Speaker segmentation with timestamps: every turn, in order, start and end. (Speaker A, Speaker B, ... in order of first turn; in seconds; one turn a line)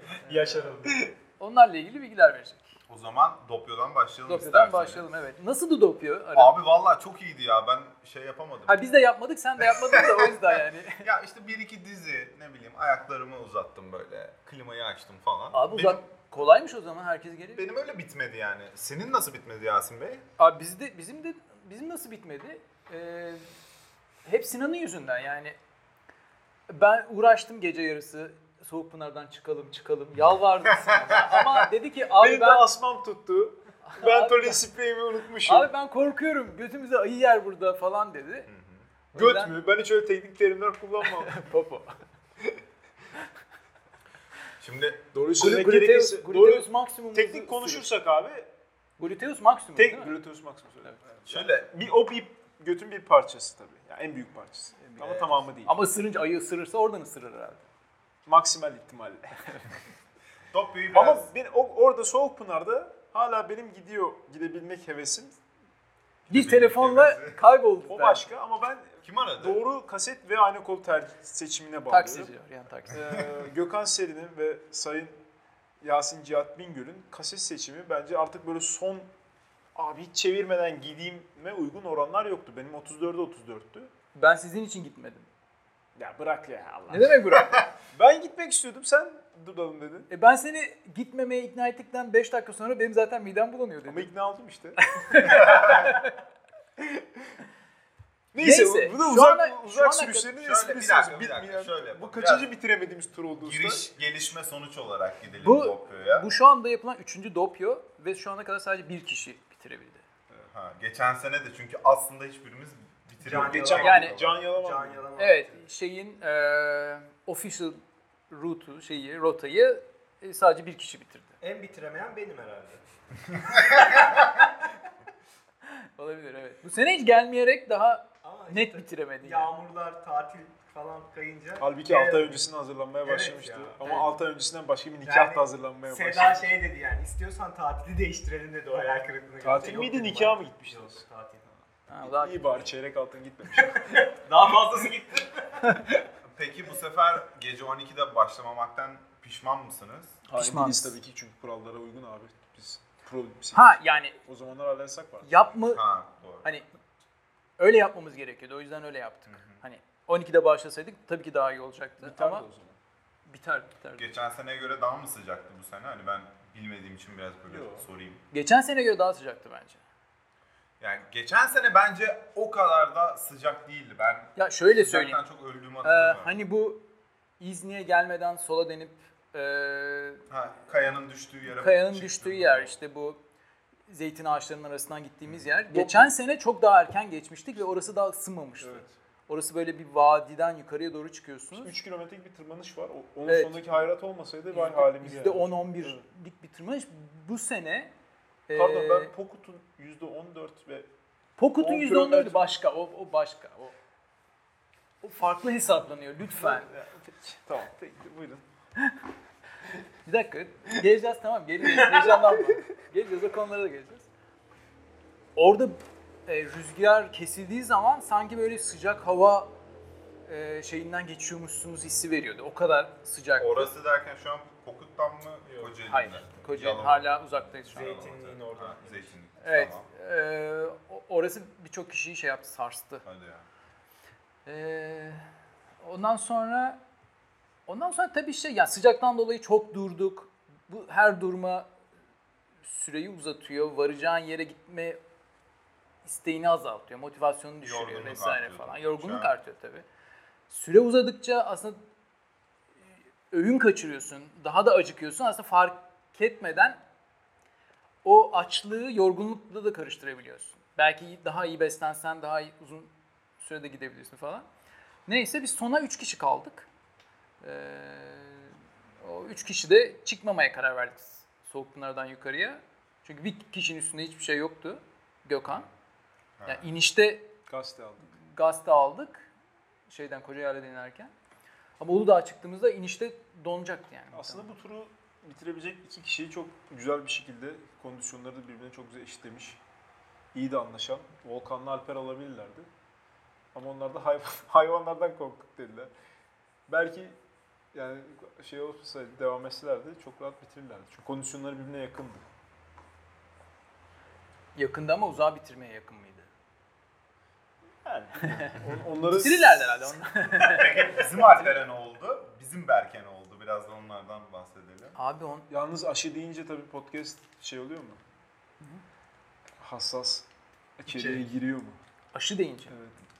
Speaker A: 0.2-0.7
Speaker B: 0.2-1.1
Speaker C: 0.8-1.1
Speaker A: 1.4-2.7
Speaker D: 2.9-5.0
Speaker A: 4.2-6.6
Speaker D: 6.3-8.8
Speaker A: 8.7-11.1
Speaker D: 11.0-16.0
Speaker A: 15.5-17.7
Speaker D: 17.6-20.2
Speaker A: 20.4-23.4
Speaker A: 24.2-25.6
Speaker A: 26.7-32.7
Speaker D: 31.1-31.4
Speaker C: 32.2-35.7
Speaker A: 33.8-34.7
Speaker A: 35.4-38.5
Speaker D: 38.5-38.9
Speaker A: 39.1-39.6
Speaker C: 39.1-41.4
Speaker A: 41.0-42.0
Speaker D: 44.6-45.1
Speaker C: 45.1-48.5
Speaker A: 45.3-47.9
Speaker A: 49.0-50.2
Speaker C: 49.8-55.8
Speaker D: 51.2-51.7
Speaker A: 54.9-57.6
Speaker C: 58.2-59.6
Speaker D: 60.5-61.3
Speaker C: 60.9-65.4
Speaker A: 66.3-68.3
Speaker D: 66.3-67.4
Speaker C: 67.9-72.3
Speaker D: 69.0-69.6
Speaker A: 71.9-73.2
Speaker C: 72.9-75.2
Speaker C: 75.8-79.1
Speaker C: 79.7-83.9
Speaker A: 84.1-85.3
Speaker C: 86.0-87.2
Speaker A: 86.9-87.7
Speaker D: 87.3-87.7
Speaker C: 87.9-90.1
Speaker A: 90.1-94.1
Speaker C: 93.8-95.8
Speaker A: 94.8-96.1
Speaker D: 95.2-96.0
Speaker C: 96.8-97.3
Speaker C: 98.3-103.9
Speaker A: 98.4-100.3
Speaker D: 100.4-102.5
Speaker D: 103.4-106.3
Speaker A: 105.4-110.0
Speaker D: 110.5-114.4
Speaker B: 113.2-115.6
Speaker C: 113.2-115.1
Speaker A: 113.8-114.1
Speaker A: 115.2-121.4
Speaker B: 121.4-122.8
Speaker D: 123.3-124.1
Speaker B: 123.7-124.0
Speaker A: 126.0-129.5
Speaker B: 128.2-132.4
Speaker C: 131.6-136.5
Speaker B: 133.0-134.1
Speaker A: 133.8-134.1
Speaker B: 135.0-141.4
Speaker C: 139.4-141.0
Speaker A: 141.9-142.7
Speaker C: 141.9-144.1
Speaker B: 143.6-145.7
Speaker D: 146.2-150.2
Speaker C: 150.3-155.4
Speaker A: 150.3-150.9
Speaker A: 153.5-154.2
Speaker A: 155.2-155.8
Speaker D: 155.7-156.5
Speaker A: 156.4-156.7
Speaker A: 157.6-162.4
Speaker D: 159.3-159.6
Speaker C: 162.0-162.8
Speaker A: 163.3-164.1
Speaker D: 164.0-168.2
Speaker C: 167.5-167.9
Speaker A: 168.3-169.8
Speaker D: 170.8-176.4
Speaker A: 174.3-175.2
Speaker A: 175.8-176.8
Speaker A: 177.4-180.2
Speaker D: 180.3-182.7
Speaker A: 181.5-183.2
Speaker A: 183.9-191.7
Speaker C: 185.7-186.1
Speaker C: 188.6-188.9
Speaker C: 191.5-196.0
Speaker A: 193.2-193.9
Speaker A: 194.5-197.9
Speaker A: 198.5-199.1
Speaker C: 198.5-200.9
Speaker A: 201.4-203.7
Speaker C: 201.6-202.4
Speaker A: 205.0-206.7
Speaker C: 206.3-208.5
Speaker A: 210.0-214.1
Speaker C: 212.3-212.6
Speaker A: 215.3-219.5
Speaker A: 220.2-223.7
Speaker D: 223.4-229.9
Speaker B: 225.4-225.7
Speaker A: 225.8-228.0
Speaker B: 227.7-229.1
Speaker A: 229.4-233.0
Speaker D: 233.0-233.4
Speaker A: 234.4-235.2
Speaker A: 235.8-236.8
Speaker A: 237.7-241.7
Speaker A: 242.6-245.0
Speaker A: 246.0-249.8
Speaker D: 247.6-249.3
Speaker A: 250.5-251.8
Speaker A: 253.3-256.8
Speaker A: 258.0-264.5
Speaker A: 265.1-266.7
Speaker A: 267.4-275.7
Speaker D: 276.4-276.6
Speaker A: 276.4-277.2
Speaker C: 277.5-278.1
Speaker A: 278.3-279.3
Speaker A: 279.9-281.1
Speaker A: 281.8-284.5
Speaker C: 284.1-289.6
Speaker C: 290.3-292.7
Speaker C: 293.5-295.9
Speaker C: 296.7-297.2
Speaker C: 297.7-302.2
Speaker A: 304.5-306.3
Speaker C: 307.8-309.9
Speaker A: 308.2-311.6
Speaker D: 310.4-315.0
Speaker A: 314.9-315.5
Speaker C: 315.5-318.0
Speaker C: 319.6-320.2
Speaker C: 320.8-321.8
Speaker B: 320.9-321.2
Speaker A: 322.1-322.7
Speaker C: 322.7-323.0